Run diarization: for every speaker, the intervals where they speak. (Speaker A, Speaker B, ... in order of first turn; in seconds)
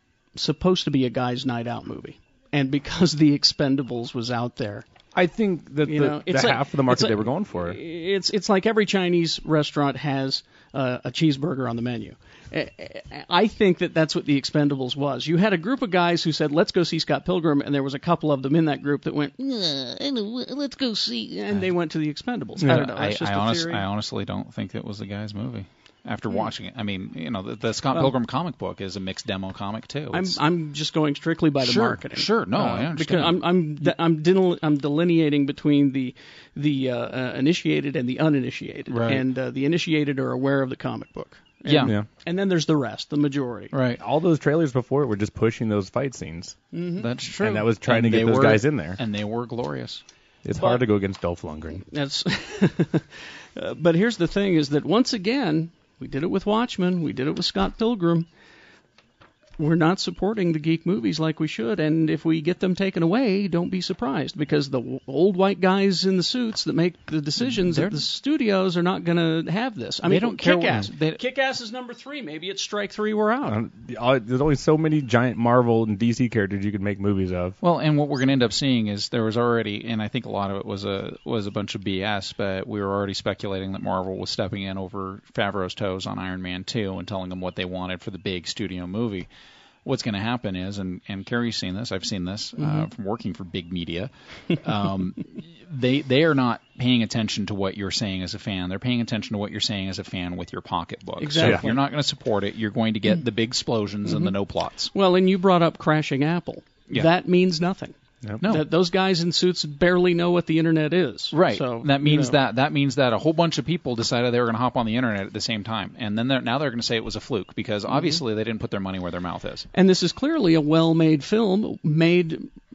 Speaker A: 0.4-4.9, 5.8-23.9, 30.1-43.7, 46.7-47.1, 50.6-50.8, 51.9-58.3, 59.6-73.6, 92.6-92.9, 101.2-101.8, 104.1-104.3, 104.9-112.4, 117.9-118.2, 119.7-122.5
Speaker B: 5.1-7.8, 22.6-22.9, 44.0-46.6, 47.4-49.0, 50.4-51.8, 73.5-77.6, 101.4-101.7
Speaker C: 22.6-30.4, 31.6-33.9, 38.9-39.2, 41.7-42.0, 43.7-44.0, 47.0-50.0, 67.6-68.0, 70.0-71.2, 77.6-89.3, 89.8-104.9, 108.4-108.7, 111.3-119.7